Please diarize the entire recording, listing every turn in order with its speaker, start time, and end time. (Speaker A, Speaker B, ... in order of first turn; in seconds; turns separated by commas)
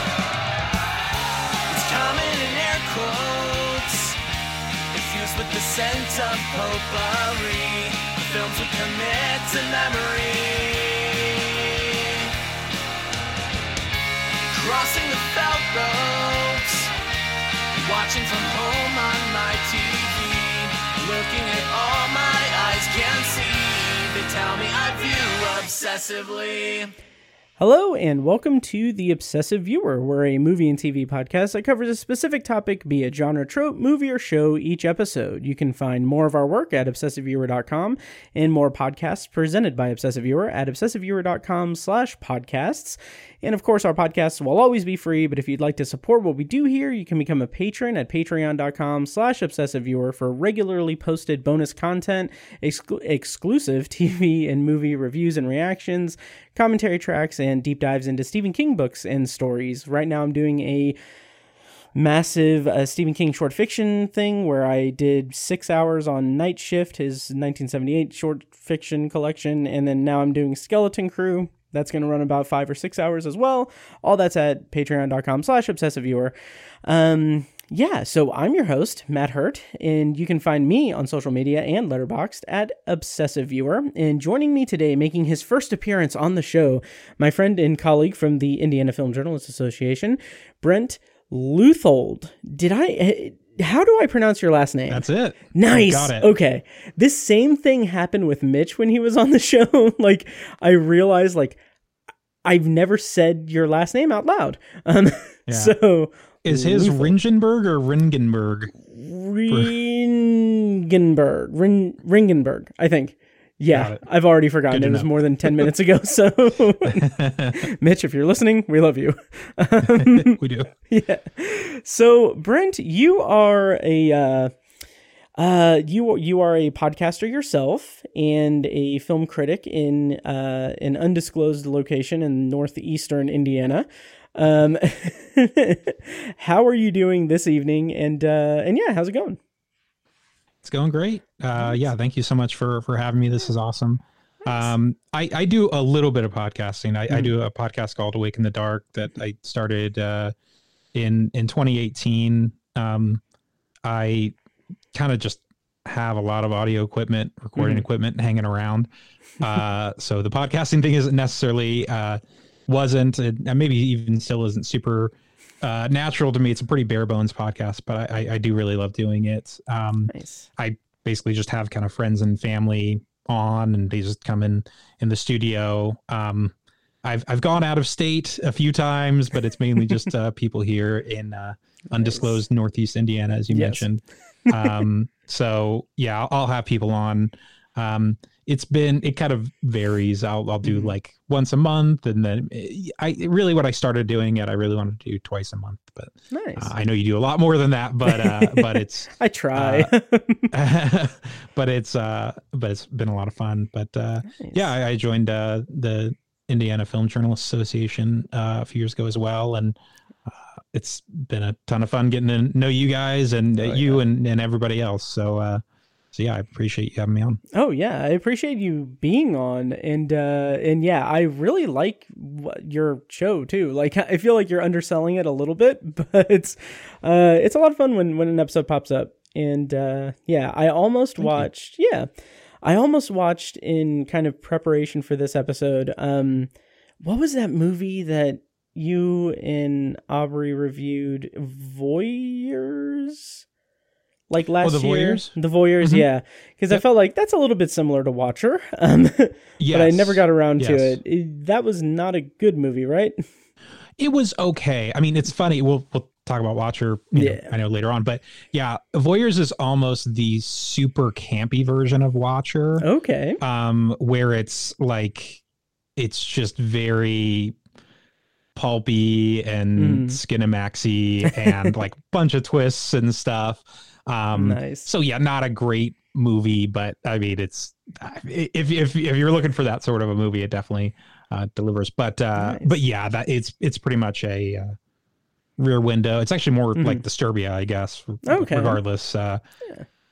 Speaker A: 1.7-4.2, Speaker A: 4.9-12.3, Speaker A: 14.5-16.9, Speaker A: 17.7-26.9, Speaker B: 27.6-61.0, Speaker B: 61.9-101.6, Speaker C: 94.9-96.3, Speaker B: 102.4-107.2, Speaker C: 105.5-105.7, Speaker C: 106.4-108.7, Speaker B: 108.8-120.3, Speaker C: 109.5-109.7, Speaker C: 113.7-114.0, Speaker C: 114.7-115.7, Speaker C: 117.0-117.6, Speaker C: 119.9-120.7, Speaker B: 120.9-124.5, Speaker B: 125.4-139.4, Speaker C: 140.6-150.3, Speaker B: 144.4-144.7, Speaker C: 150.9-153.2, Speaker C: 153.8-154.3, Speaker C: 154.9-158.9, Speaker B: 157.6-157.8, Speaker C: 159.4-176.5, Speaker B: 170.1-170.4, Speaker C: 177.0-199.9, Speaker B: 181.9-182.4, Speaker B: 183.5-183.8, Speaker B: 184.5-184.8, Speaker B: 190.6-190.9, Speaker B: 196.3-196.7, Speaker B: 198.0-200.5, Speaker C: 200.5-209.8, Speaker B: 204.3-204.7, Speaker C: 210.3-217.4, Speaker B: 213.5-214.0, Speaker B: 217.5-232.1, Speaker C: 231.2-231.5, Speaker B: 232.6-236.5, Speaker B: 237.0-243.4, Speaker B: 244.3-253.2, Speaker C: 244.6-246.1, Speaker C: 249.6-251.0, Speaker C: 254.0-262.9, Speaker B: 257.1-257.5, Speaker B: 262.8-263.4, Speaker C: 263.4-265.4, Speaker C: 265.9-267.6, Speaker C: 268.5-284.8, Speaker B: 269.8-270.2, Speaker B: 271.2-271.7, Speaker B: 274.3-274.9, Speaker B: 282.4-282.8, Speaker C: 285.6-289.4, Speaker B: 286.8-287.0, Speaker B: 288.2-288.8